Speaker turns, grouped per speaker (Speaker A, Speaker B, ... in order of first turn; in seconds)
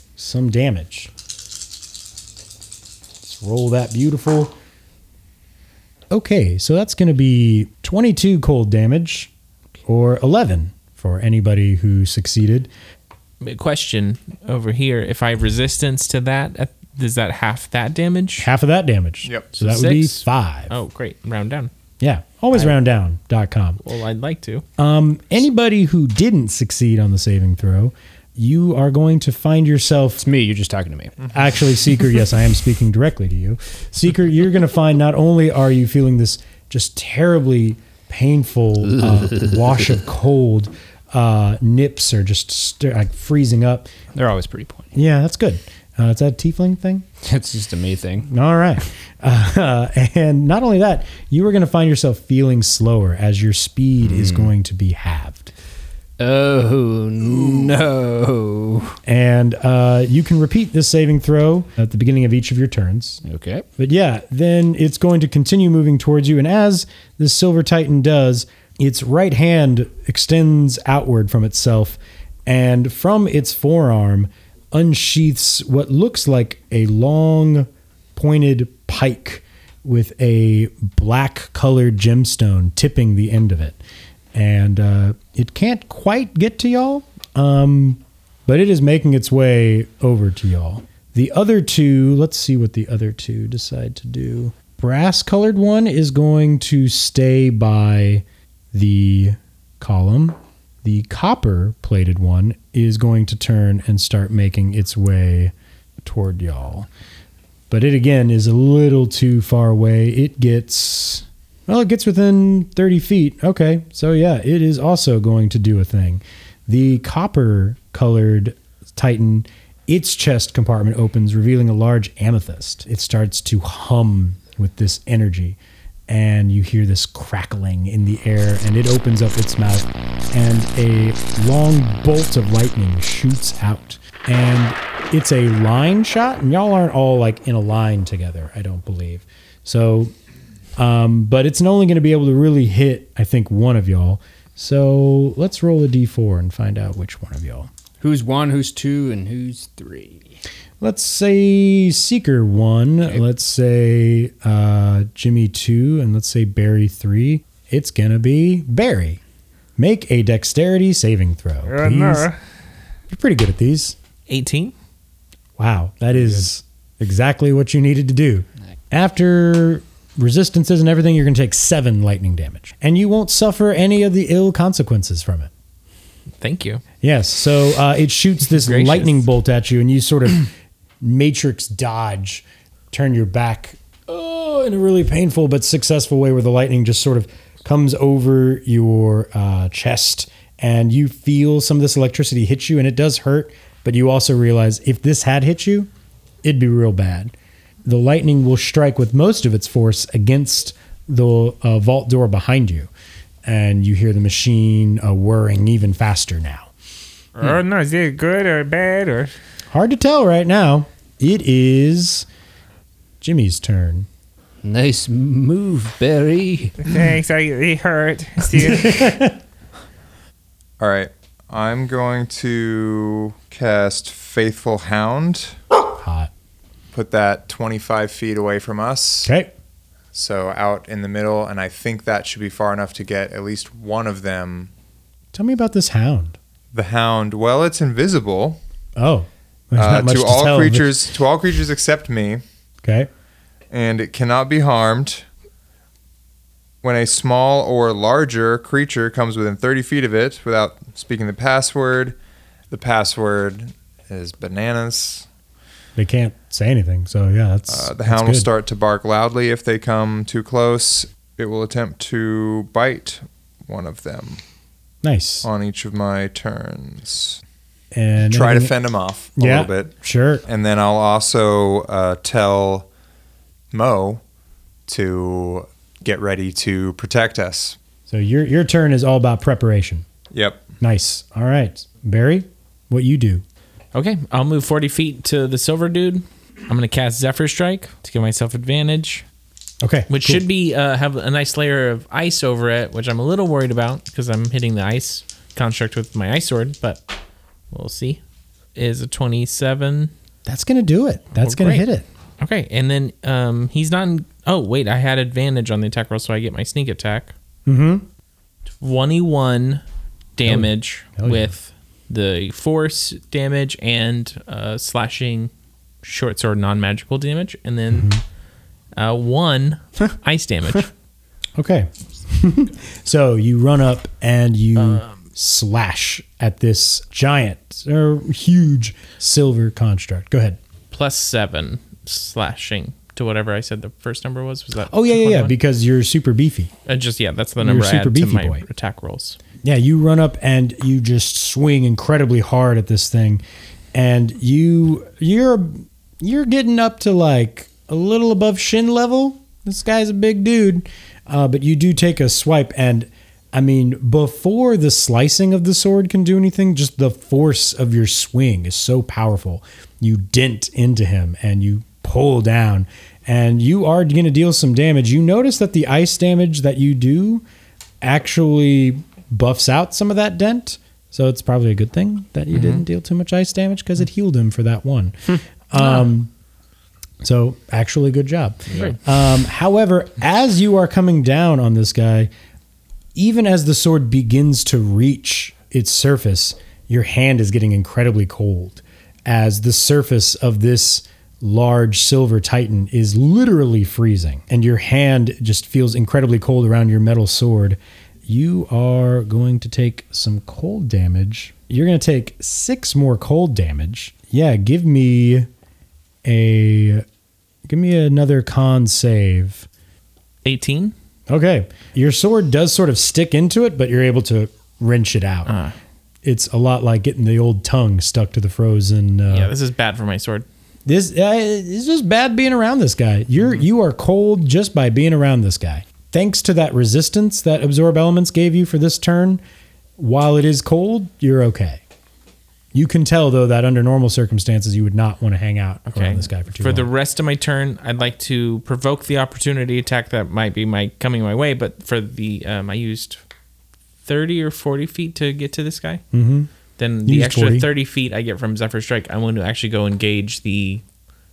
Speaker A: 0.2-1.1, 3.2-4.5, 6.1-9.3, 9.9-12.7, 18.4-20.7, 22.0-23.8, 24.8-30.2, 31.3-43.9, 44.9-47.0, 48.3-55.5, 59.0-63.2, 63.8-83.8, 84.3-106.9, 107.7-125.6, 126.1-140.1, 140.8-147.7, 150.8-159.2, 159.8-162.3, 163.1-164.0, 165.6-175.5, 177.0-180.5, 181.0-195.9, 196.4-197.3, 197.8-202.9, 203.4-206.7, 209.7-212.3, 213.2-214.1, 218.8-219.4, 226.0-226.3, 229.2-229.5, 235.3-236.4, 239.0-240.9, 242.8-243.1, 256.0-258.5, 265.0-265.5, 267.9-268.8, 269.4-270.4, 278.1-280.1, 280.8-283.4, 289.8-290.4, 300.5-302.1, 307.7-308.1, 310.4-311.5, 317.9-318.2, 321.6-330.6, 334.9-336.7, 337.6-338.6, 339.6-343.4, 343.9-367.4, 368.0-376.3, 377.2-382.3, 383.2-405.5, 406.2-407.1, 407.7-409.7, 411.3-415.6, 416.2-419.5, 420.9-429.4, 430.0-431.8, 432.7-436.9, 446.1-446.5, 447.1-447.7
Speaker B: 13.4-18.5, 19.5-21.7, 23.8-24.6, 164.3-164.8, 176.4-176.8, 178.5-179.2, 283.9-289.2, 290.1-297.1, 297.7-298.2, 298.8-300.1, 301.4-301.9, 302.4-307.3, 308.8-309.8, 310.4-315.5, 316.0-318.1, 319.0-320.9, 324.8-325.2, 330.9-335.5, 336.9-339.4, 372.6-372.8, 375.8-376.1, 378.7-379.0, 410.4-410.9, 415.5-415.8, 419.3-420.5, 435.9-443.2, 444.1-446.0, 446.8-450.8
Speaker C: 30.2-31.2, 39.1-39.5, 44.2-44.9, 47.2-48.3, 54.0-54.5, 56.2-59.0, 63.2-63.6, 148.0-150.2, 214.6-216.8, 378.7-378.9
Speaker D: 161.7-162.3, 207.4-209.3, 216.8-219.2
Speaker E: 220.8-225.6, 226.9-229.3, 230.1-234.7, 236.7-238.6, 239.8-242.4, 243.7-245.3, 246.8-252.2, 252.7-255.3, 257.7-264.4, 265.4-267.4, 268.3-269.9, 270.5-272.9, 273.7-274.2, 274.9-277.8, 280.3-280.7